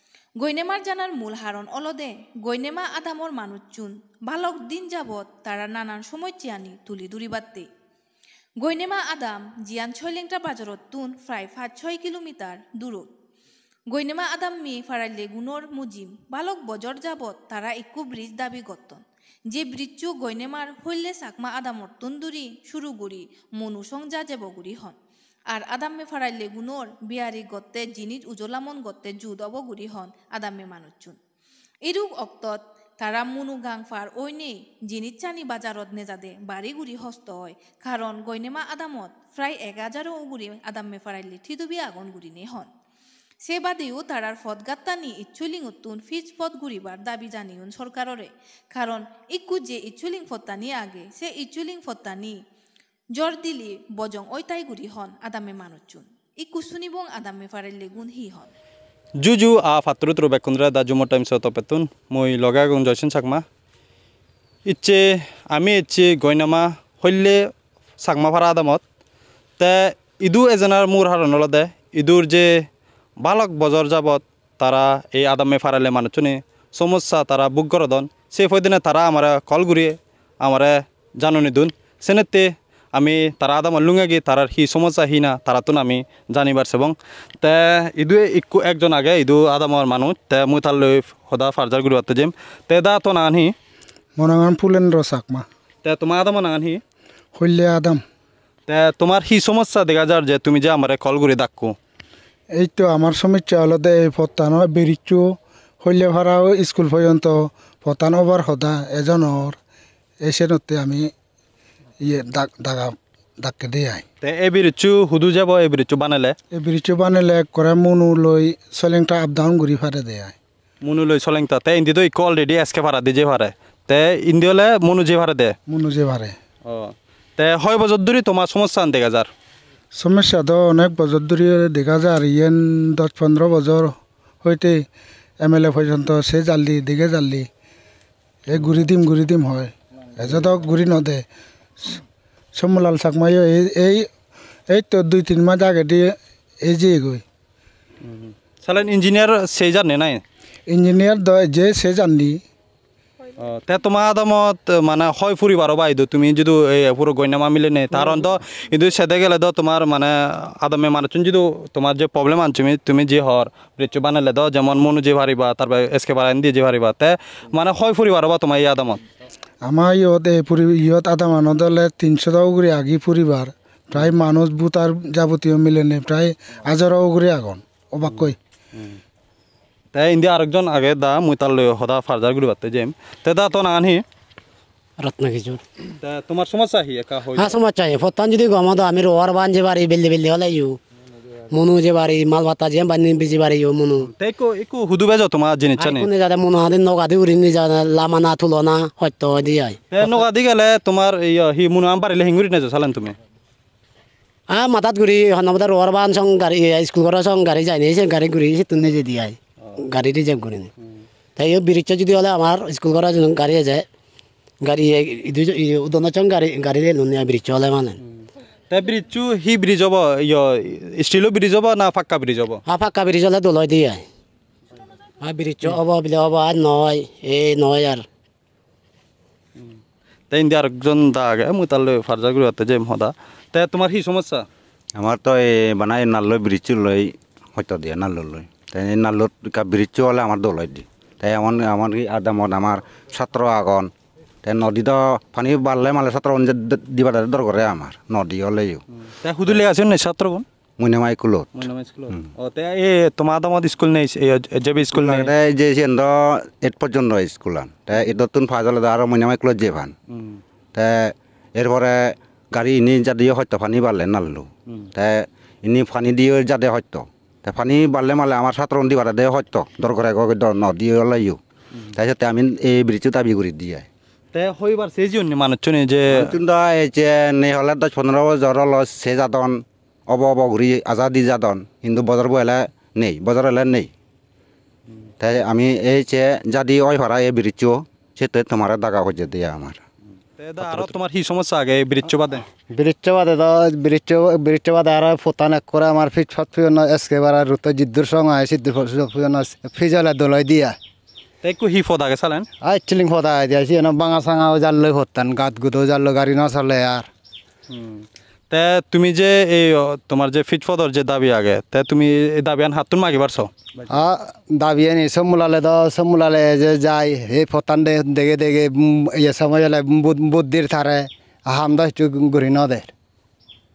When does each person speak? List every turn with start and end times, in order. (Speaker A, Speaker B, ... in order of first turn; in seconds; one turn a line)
Speaker A: 0.4-7.7
Speaker A: 8.6-13.1
Speaker A: 13.9-24.9
Speaker A: 25.5-31.1
Speaker A: 31.8-42.7
Speaker A: 43.4-52.4
Speaker A: 53.1-58.5
Speaker B: 59.2-63.4
Speaker B: 64.7-67.4
Speaker B: 68.0-68.8
Speaker B: 69.6-72.6
Speaker B: 73.2-93.5
Speaker C: 94.2-95.4
Speaker B: 95.8-96.8
Speaker C: 97.3-98.0
Speaker B: 98.7-101.7
Speaker C: 102.5-109.6
Speaker C: 110.2-111.1
Speaker C: 112.0-114.0
Speaker B: 114.2-116.3
Speaker C: 116.5-120.3
Speaker B: 120.8-125.5
Speaker C: 125.7-126.3
Speaker B: 126.7-129.3
Speaker C: 129.9-134.9
Speaker C: 135.4-137.5
Speaker C: 138.5-141.2
Speaker C: 142.5-144.1
Speaker C: 144.7-147.2
Speaker B: 148.0-150.2
Speaker C: 150.7-152.4
Speaker B: 153.4-169.0
Speaker C: 169.6-178.4
Speaker B: 178.0-179.0
Speaker B: 179.9-184.0
Speaker D: 185.0-185.6
Speaker B: 186.0-187.6
Speaker D: 187.4-190.8
Speaker D: 191.5-194.1
Speaker B: 194.0-196.1
Speaker D: 195.8-199.8
Speaker B: 199.9-203.2
Speaker D: 204.5-210.7
Speaker D: 211.4-213.8
Speaker D: 214.6-218.0
Speaker B: 218.7-222.6
Speaker D: 222.7-224.0
Speaker D: 225.2-228.0
Speaker B: 230.3-234.5
Speaker E: 234.9-243.9
Speaker E: 244.4-248.8
Speaker B: 249.0-250.4
Speaker E: 250.8-252.2
Speaker B: 251.5-255.3
Speaker E: 254.9-259.9
Speaker B: 260.1-260.4
Speaker E: 260.7-271.4
Speaker E: 271.9-273.9
Speaker B: 274.3-276.2
Speaker E: 276.1-283.9
Speaker E: 285.2-289.8
Speaker B: 290.4-292.4
Speaker F: 292.7-300.8
Speaker B: 301.4-302.5
Speaker F: 302.6-307.1
Speaker B: 307.7-313.9
Speaker F: 313.9-322.9